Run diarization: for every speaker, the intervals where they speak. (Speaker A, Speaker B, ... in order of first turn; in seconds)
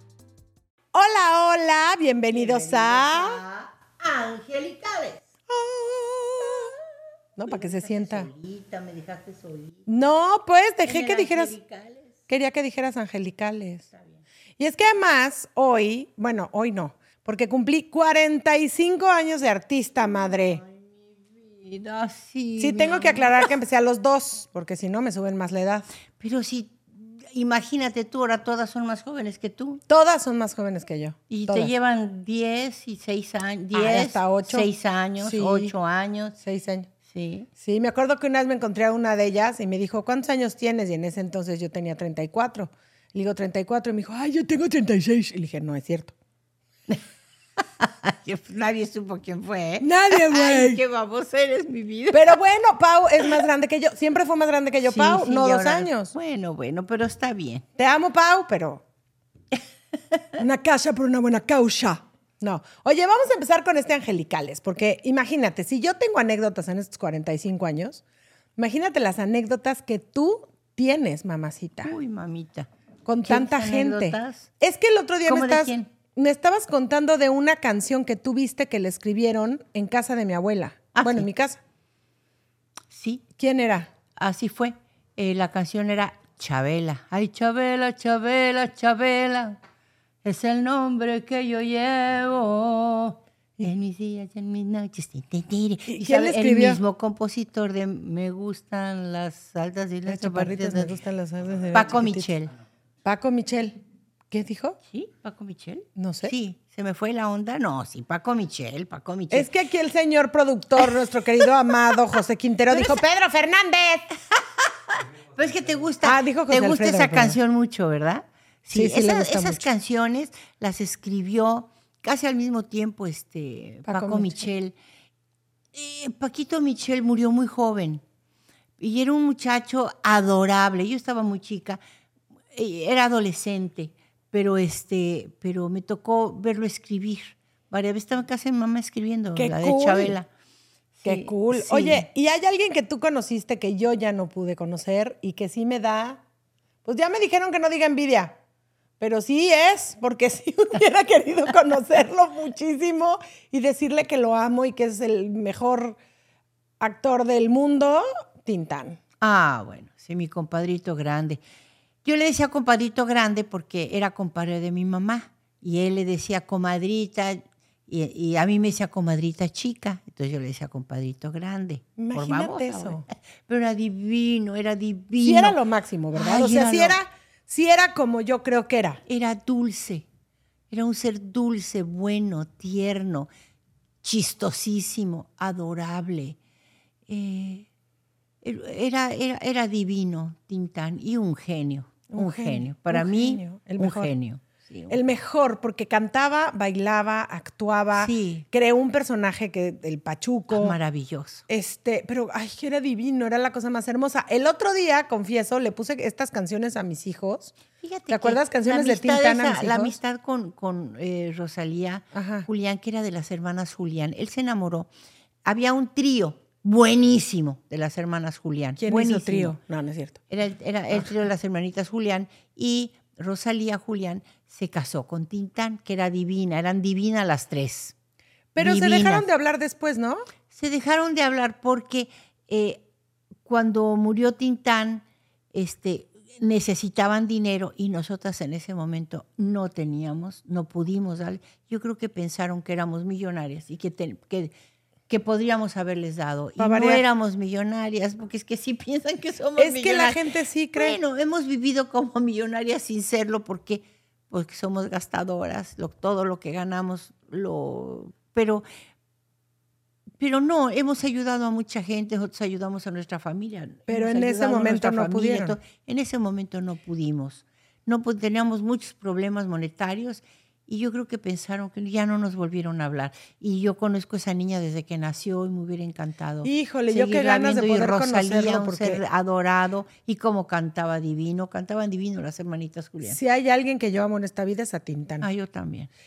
Speaker A: 0.9-3.4, 5.5-6.7, 7.4-8.3, 9.9-11.5, 12.3-13.9, 14.6-20.6, 22.6-25.9, 29.9-31.7, 33.7-35.8, 36.4-36.9, 37.6-46.1, 49.8-50.8, 52.1-56.1, 57.8-58.8, 60.4-68.0, 68.6-71.9, 73.1-81.6, 83.4-83.9, 95.9-96.8, 100.1-102.3, 103.0-103.8, 104.3-104.8, 106.0-106.3, 109.3-114.1, 116.0-117.4, 118.7-119.6, 123.9-124.5, 139.4-140.2, 141.1-146.2, 146.8-148.3, 149.0-156.0, 156.8-159.0, 172.0-173.1, 175.2-179.0, 192.1-194.1, 194.9-200.8, 201.5-207.6, 208.1-210.0, 212.1-212.5, 218.8-220.2, 228.6-230.3, 246.6-247.0, 249.6-251.0, 263.9-265.6, 276.4-279.0, 283.0-285.3
Speaker B: 2.3-5.2, 7.5-9.8, 10.9-12.1, 20.1-20.7, 21.4-23.5, 26.2-29.8, 31.3-36.4, 37.1-37.5, 47.8-52.4, 54.9-57.6, 71.8-72.7, 73.2-74.5, 75.2-75.9, 80.9-81.3, 82.9-83.2, 84.2-89.6, 90.2-101.0, 101.7-102.5, 104.9-109.5, 112.7-113.0, 114.6-124.8, 125.7-128.0, 128.8-131.8, 132.6-140.3, 141.0-142.1, 159.2-161.4, 162.1-175.6, 176.1-177.0, 179.1-180.1, 180.7-183.3, 184.0-186.4, 187.1-187.7, 188.4-195.0, 197.9-198.4, 200.5-201.4, 207.8-214.9, 215.4-219.5, 220.3-227.9, 228.6-229.3, 230.5-232.8, 233.4-244.5, 245.1-250.2, 250.8-258.6, 260.2-283.2, 285.2-285.9